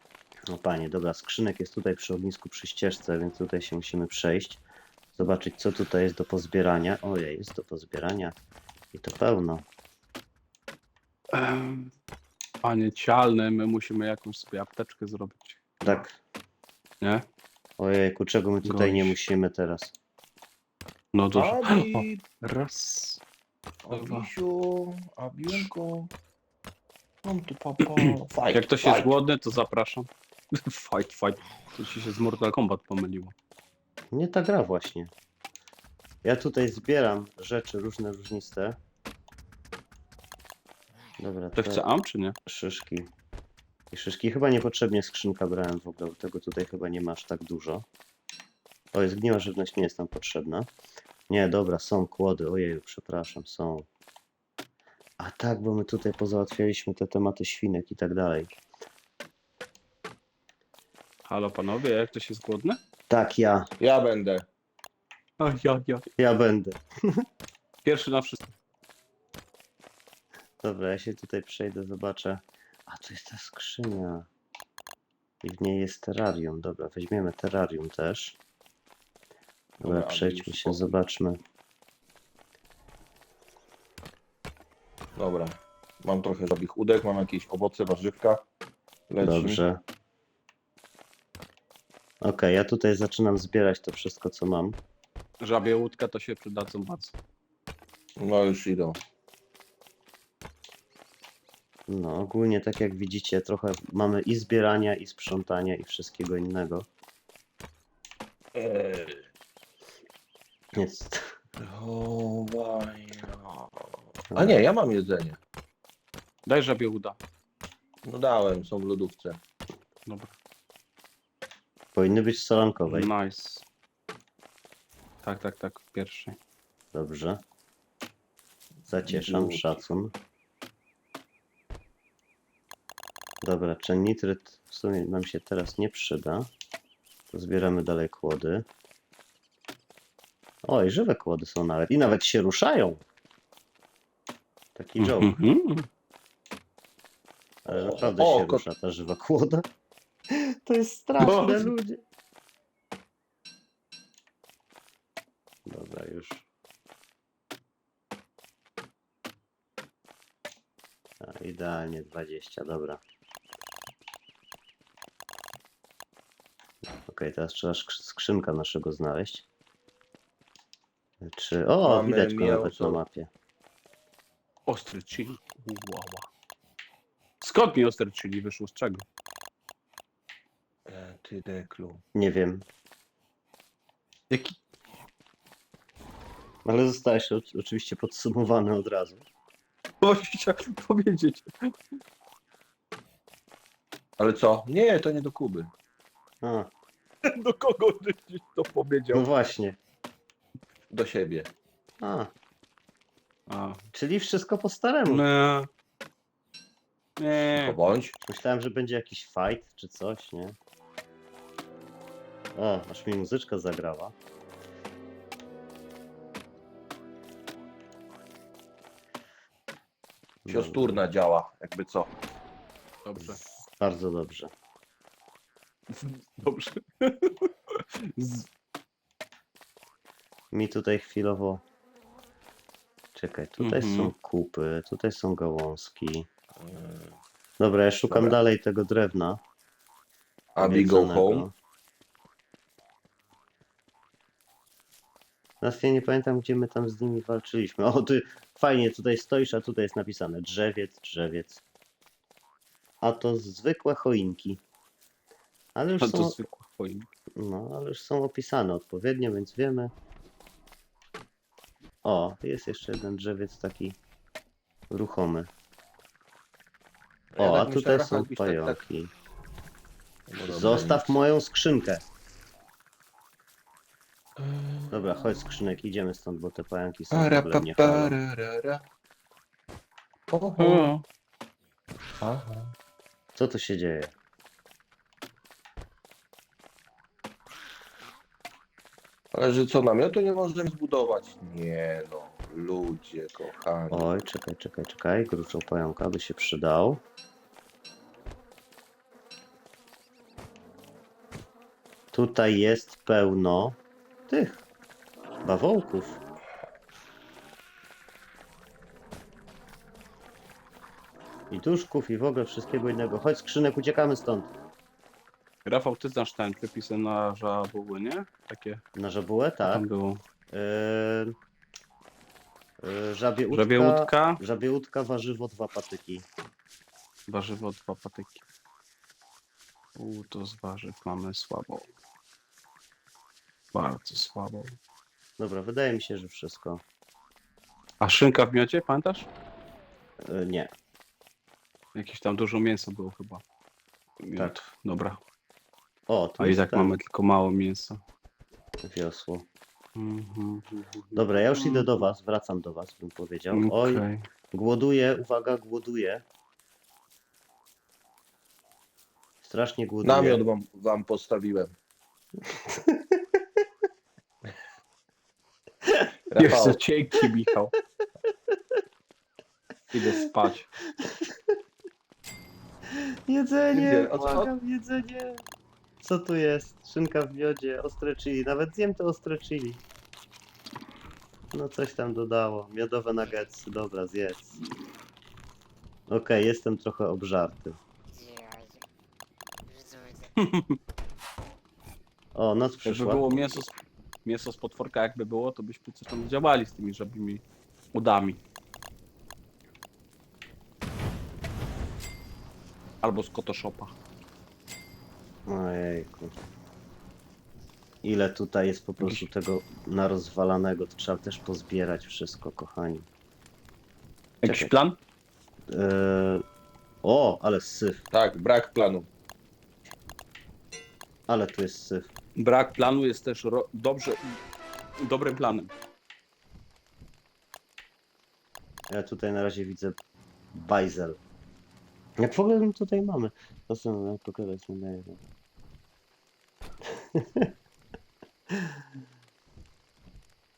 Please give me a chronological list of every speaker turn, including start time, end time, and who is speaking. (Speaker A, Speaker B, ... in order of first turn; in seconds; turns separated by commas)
Speaker A: 0.5-4.6, Speaker A: 5.1-8.3, Speaker A: 8.9-9.6, Speaker B: 11.3-11.9, Speaker B: 12.6-16.0, Speaker A: 15.8-16.2, Speaker A: 17.8-19.9, Speaker B: 18.6-19.1, Speaker B: 21.1-23.2, Speaker C: 21.3-22.2, Speaker C: 23.8-26.1, Speaker B: 23.9-24.3, Speaker C: 27.2-29.1, Speaker B: 28.0-33.3, Speaker A: 34.1-35.1, Speaker A: 36.2-38.8, Speaker A: 41.2-41.8, Speaker B: 41.5-42.4, Speaker A: 42.5-43.1, Speaker A: 43.9-47.8, Speaker A: 48.9-50.7, Speaker A: 51.3-53.9, Speaker A: 55.2-58.5, Speaker B: 61.2-62.8, Speaker A: 63.1-63.7, Speaker C: 63.8-64.5, Speaker B: 65.4-66.0, Speaker A: 66.2-67.2, Speaker B: 67.8-68.4, Speaker A: 70.6-74.3, Speaker A: 75.4-78.4, Speaker C: 79.8-80.8, Speaker A: 79.8-81.4, Speaker C: 85.2-88.4, Speaker C: 89.1-89.6, Speaker A: 89.2-89.8, Speaker A: 92.2-94.8, Speaker B: 95.4-97.2, Speaker C: 98.2-99.0, Speaker A: 101.9-106.8, Speaker C: 108.5-109.2, Speaker A: 110.8-111.3, Speaker C: 111.6-115.4, Speaker A: 114.3-114.6, Speaker B: 116.5-117.2, Speaker C: 118.0-119.4, Speaker B: 120.0-120.3, Speaker A: 121.9-123.1, Speaker B: 122.9-123.7, Speaker B: 125.2-126.4, Speaker A: 126.9-127.4, Speaker C: 128.8-129.7, Speaker A: 128.9-130.1, Speaker A: 133.4-136.5, Speaker A: 137.3-138.7, Speaker A: 140.6-143.0, Speaker A: 144.7-145.4, Speaker B: 145.0-145.9, Speaker A: 147.6-149.7, Speaker C: 147.7-148.6, Speaker A: 150.3-152.0, Speaker B: 151.2-151.7, Speaker A: 155.7-156.5, Speaker A: 161.2-163.0, Speaker A: 167.1-169.4, Speaker A: 171.2-173.3, Speaker C: 171.8-173.0, Speaker B: 174.7-176.3, Speaker B: 177.4-179.1, Speaker C: 180.8-182.0, Speaker A: 182.1-182.7, Speaker B: 184.3-184.6, Speaker A: 186.6-189.2, Speaker B: 190.0-191.7, Speaker C: 194.2-195.7, Speaker A: 196.4-196.7, Speaker B: 197.2-199.3, Speaker A: 199.1-199.8, Speaker C: 200.9-201.5, Speaker A: 202.0-202.3, Speaker B: 203.5-203.8, Speaker A: 203.9-205.2, Speaker B: 205.1-205.7, Speaker B: 207.2-207.8, Speaker C: 207.5-208.2, Speaker A: 208.3-210.6, Speaker A: 212.5-214.1, Speaker A: 220.4-221.0, Speaker C: 220.5-222.1, Speaker B: 223.0-223.4, Speaker A: 223.2-224.5, Speaker B: 225.9-228.5, Speaker A: 230.5-231.6, Speaker A: 233.1-236.3, Speaker B: 233.6-234.1, Speaker C: 236.6-237.2, Speaker A: 237.6-239.4, Speaker C: 238.1-238.3, Speaker C: 240.6-241.5, Speaker A: 240.6-241.5, Speaker A: 245.6-251.6, Speaker A: 253.0-254.6, Speaker A: 255.7-256.4, Speaker B: 256.0-257.1, Speaker A: 257.4-259.9, Speaker A: 262.0-264.0, Speaker A: 264.9-265.5, Speaker C: 267.3-268.8, Speaker A: 267.4-269.1, Speaker C: 270.3-271.1, Speaker A: 270.5-272.1, Speaker C: 274.4-275.4, Speaker A: 274.9-278.1, Speaker C: 277.1-278.8, Speaker C: 280.3-280.9, Speaker B: 280.6-281.0, Speaker C: 282.2-282.7, Speaker A: 283.3-284.1, Speaker C: 289.3-294.1, Speaker A: 293.9-297.0, Speaker A: 302.1-304.6, Speaker A: 305.4-306.2, Speaker A: 311.5-314.5, Speaker B: 315.6-318.8, Speaker A: 318.9-319.9, Speaker B: 319.6-320.2, Speaker A: 320.5-321.4, Speaker A: 322.8-326.3, Speaker B: 323.5-324.4, Speaker B: 327.3-328.4, Speaker B: 329.9-331.9, Speaker B: 333.7-334.8, Speaker A: 335.4-336.8, Speaker B: 338.0-339.3, Speaker A: 340.2-340.7, Speaker B: 341.9-343.4, Speaker B: 344.2-345.2, Speaker A: 346.1-346.9, Speaker B: 346.4-348.0, Speaker A: 348.8-349.5, Speaker B: 349.9-351.9, Speaker A: 351.1-356.2, Speaker B: 353.5-354.3, Speaker A: 359.4-360.4, Speaker C: 360.0-361.7, Speaker A: 362.6-363.4, Speaker C: 366.3-366.8, Speaker B: 366.4-367.7, Speaker B: 369.9-370.7, Speaker A: 371.0-371.4, Speaker A: 372.9-375.4, Speaker C: 373.7-374.5, Speaker A: 376.0-379.8, Speaker A: 381.5-384.6, Speaker A: 386.1-387.8, Speaker B: 390.4-390.8, Speaker A: 392.3-393.6, Speaker B: 392.8-398.4, Speaker B: 403.0-403.9, Speaker A: 405.5-406.3, Speaker A: 408.0-413.1, Speaker B: 414.4-415.0, Speaker A: 414.4-414.7, Speaker A: 415.7-416.4, Speaker A: 417.0-418.0, Speaker C: 418.1-419.1, Speaker A: 421.3-422.1, Speaker B: 422.4-424.4, Speaker B: 425.0-425.7, Speaker A: 428.9-430.0, Speaker A: 430.5-431.2, Speaker A: 432.2-435.2, Speaker A: 436.8-437.5, Speaker A: 438.5-438.9